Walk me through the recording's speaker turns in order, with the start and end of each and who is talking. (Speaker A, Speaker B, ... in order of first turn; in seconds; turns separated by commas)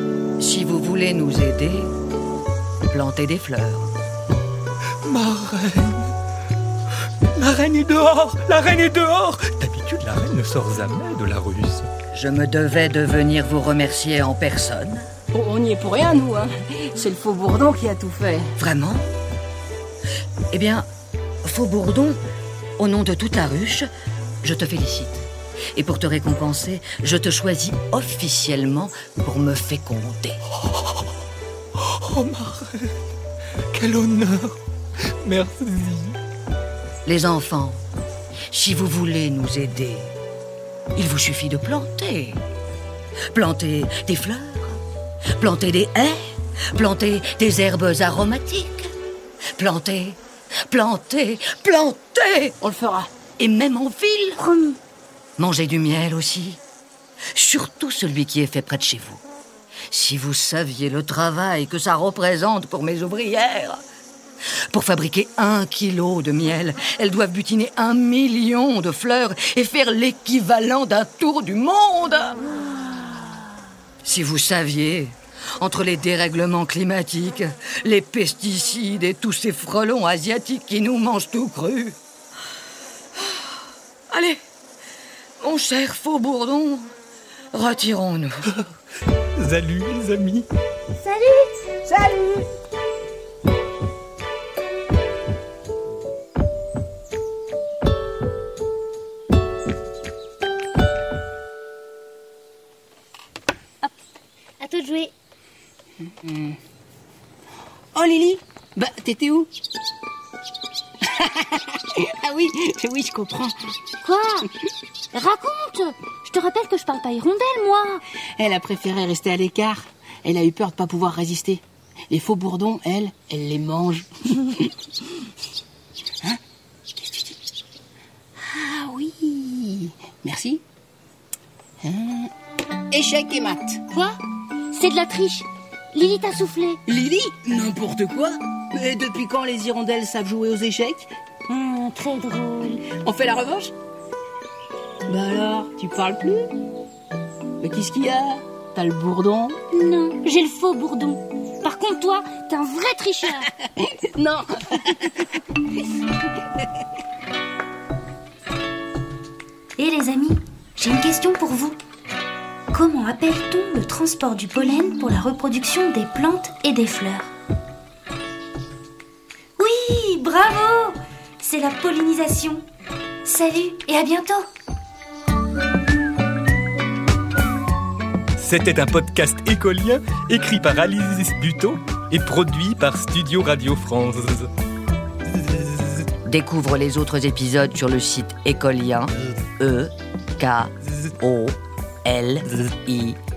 Speaker A: 0.4-1.9, Speaker A: 2.9-3.9, Speaker B: 5.0-6.1, Speaker B: 7.3-11.9, Speaker A: 12.1-15.1, Speaker C: 15.3-18.5, Speaker A: 18.6-19.1, Speaker A: 20.5-20.9, Speaker A: 21.4-22.2, Speaker A: 22.8-23.9, Speaker A: 24.4-30.4, Speaker B: 31.8-32.9, Speaker B: 33.7-34.6, Speaker B: 35.2-36.2, Speaker A: 37.0-37.8, Speaker A: 38.5-40.1, Speaker A: 40.9-42.4, Speaker A: 43.3-44.8, Speaker A: 45.4-46.2, Speaker A: 46.7-48.9, Speaker A: 49.5-52.5, Speaker C: 52.6-53.1, Speaker A: 53.4-54.4, Speaker D: 54.4-54.8, Speaker A: 55.4-56.6, Speaker A: 57.3-59.2, Speaker A: 59.9-63.8, Speaker A: 64.7-72.5, Speaker A: 74.0-82.0, Speaker A: 84.1-84.4, Speaker A: 85.4-86.9, Speaker A: 87.5-88.3, Speaker B: 89.4-90.5, Speaker D: 90.9-91.5, Speaker D: 104.6-105.1, Speaker C: 106.0-106.6, Speaker C: 107.9-109.5, Speaker C: 111.0-113.5, Speaker D: 114.0-114.5, Speaker D: 115.1-118.0, Speaker C: 118.4-125.2, Speaker C: 126.9-127.4, Speaker C: 128.4-130.6, Speaker C: 131.8-132.3, Speaker C: 132.9-133.9, Speaker D: 134.7-136.8, Speaker C: 136.8-141.1, Speaker D: 141.5-142.8, Speaker C: 142.9-143.7, Speaker C: 145.1-146.5, Speaker C: 147.6-149.6, Speaker D: 149.7-153.5, Speaker C: 153.6-155.3, Speaker D: 159.8-161.8, Speaker D: 162.7-167.3, Speaker D: 169.6-172.6, Speaker D: 173.2-174.4, Speaker B: 178.4-184.5, Speaker A: 186.2-193.2